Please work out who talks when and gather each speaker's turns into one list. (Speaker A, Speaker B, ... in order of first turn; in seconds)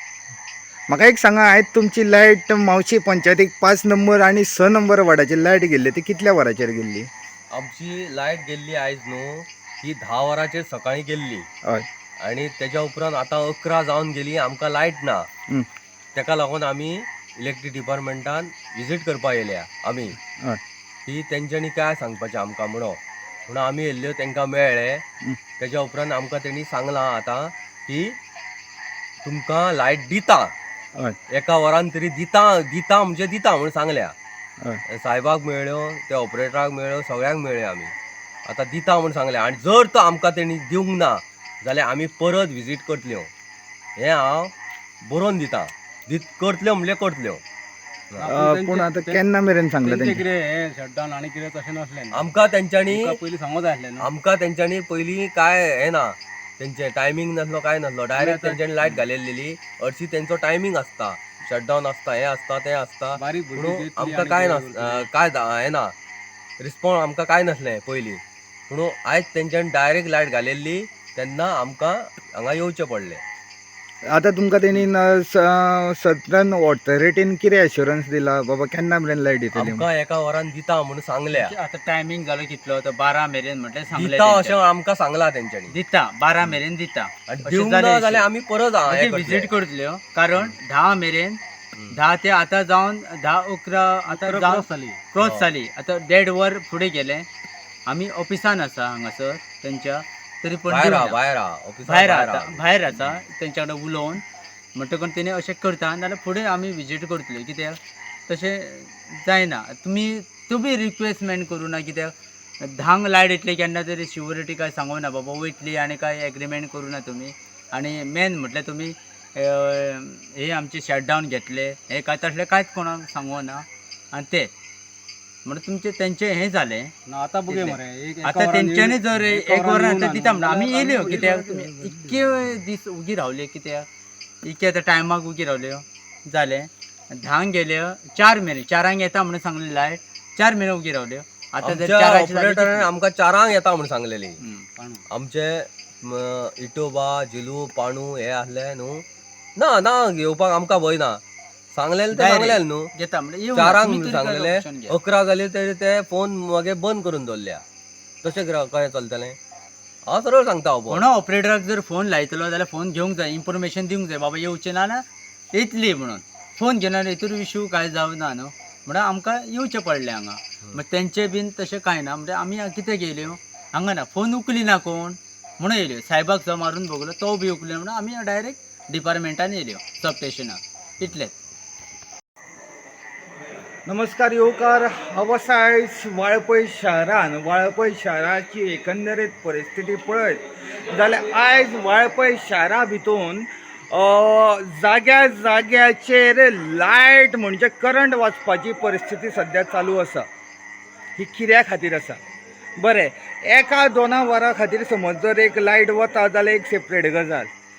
Speaker A: 0.9-7.1, 48.2-50.2, 74.1-79.8, 183.9-200.2, 201.2-202.2, 202.8-207.5
Speaker B: 7.5-11.5, 12.2-15.3, 16.1-20.2, 21.1-25.0, 25.6-28.1, 29.2-30.5, 31.3-34.1, 34.9-37.9, 38.5-43.3, 44.0-44.5, 45.0-47.4, 52.1-53.1, 54.0-65.9, 66.6-73.2, 79.5-81.5, 83.9-85.7, 87.3-89.5, 95.2-95.5, 100.7-103.2, 141.6-144.4, 145.1-149.0, 149.6-151.2, 151.7-152.9, 153.5-157.6, 158.2-159.4, 160.1-161.0
Speaker C: 48.2-49.2, 49.8-52.3, 52.9-54.1, 58.1-59.0, 63.1-65.1, 94.1-95.1, 127.0-132.2, 144.8-145.0
Speaker D: 81.3-84.7, 85.7-88.3, 88.8-91.4, 91.9-97.3, 97.8-101.2, 101.8-104.2, 104.7-124.5, 125.4-126.9, 127.5-133.9, 134.4-142.9, 144.4-144.7, 152.1-155.0, 160.9-181.3